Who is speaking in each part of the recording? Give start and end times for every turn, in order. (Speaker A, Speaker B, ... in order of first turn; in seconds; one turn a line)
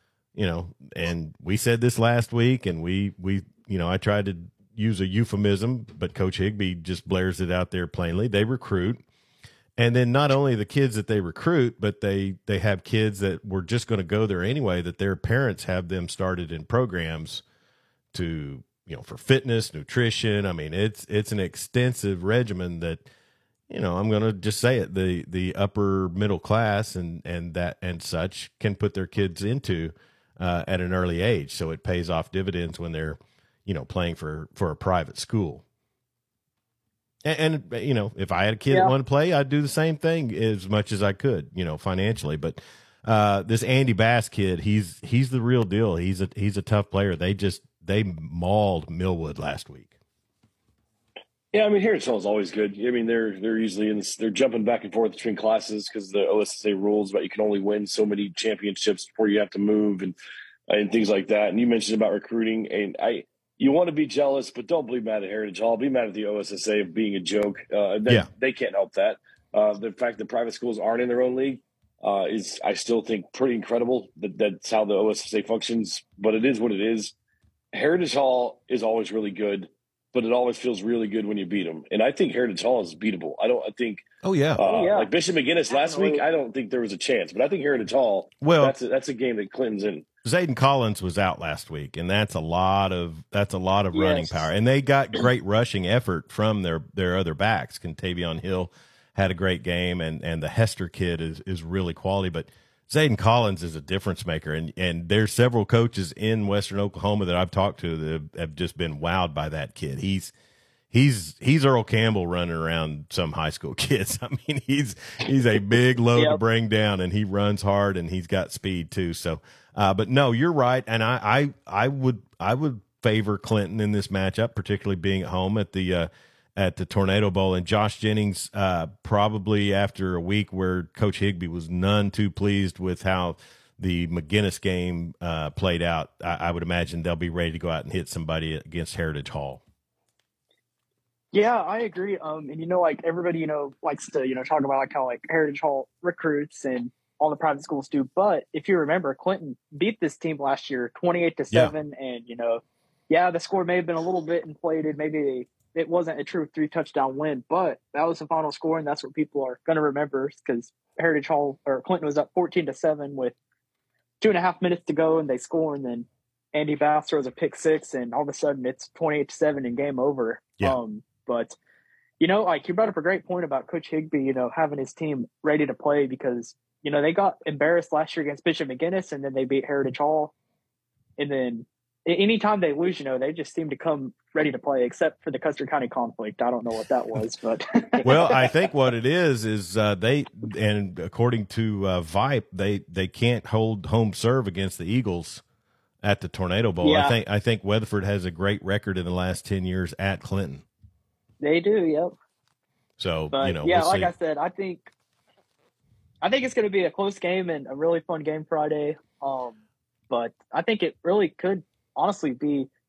Speaker A: 0.3-9.0
Speaker A: 9.8-17.4
Speaker A: 18.1-23.0
Speaker A: 23.7-35.6
Speaker A: 37.2-49.9
Speaker B: 51.5-60.1
Speaker B: 60.7-77.2
Speaker B: 77.7-90.0
Speaker A: 84.2-84.6
Speaker C: 84.6-85.1
Speaker C: 85.7-86.2
Speaker A: 88.4-88.8
Speaker A: 90.2-110.3
Speaker C: 93.9-94.5
Speaker A: 110.9-139.6
Speaker C: 141.3-163.3
Speaker C: 164.2-171.6
Speaker C: 172.2-180.3
Speaker C: 181.2-188.5
Speaker A: 188.0-195.4
Speaker A: 196.0-200.6
Speaker C: 196.8-197.2
Speaker C: 201.4-202.1
Speaker A: 203.0-204.1
Speaker C: 203.3-204.9
Speaker C: 206.2-209.6
Speaker C: 210.1-212.7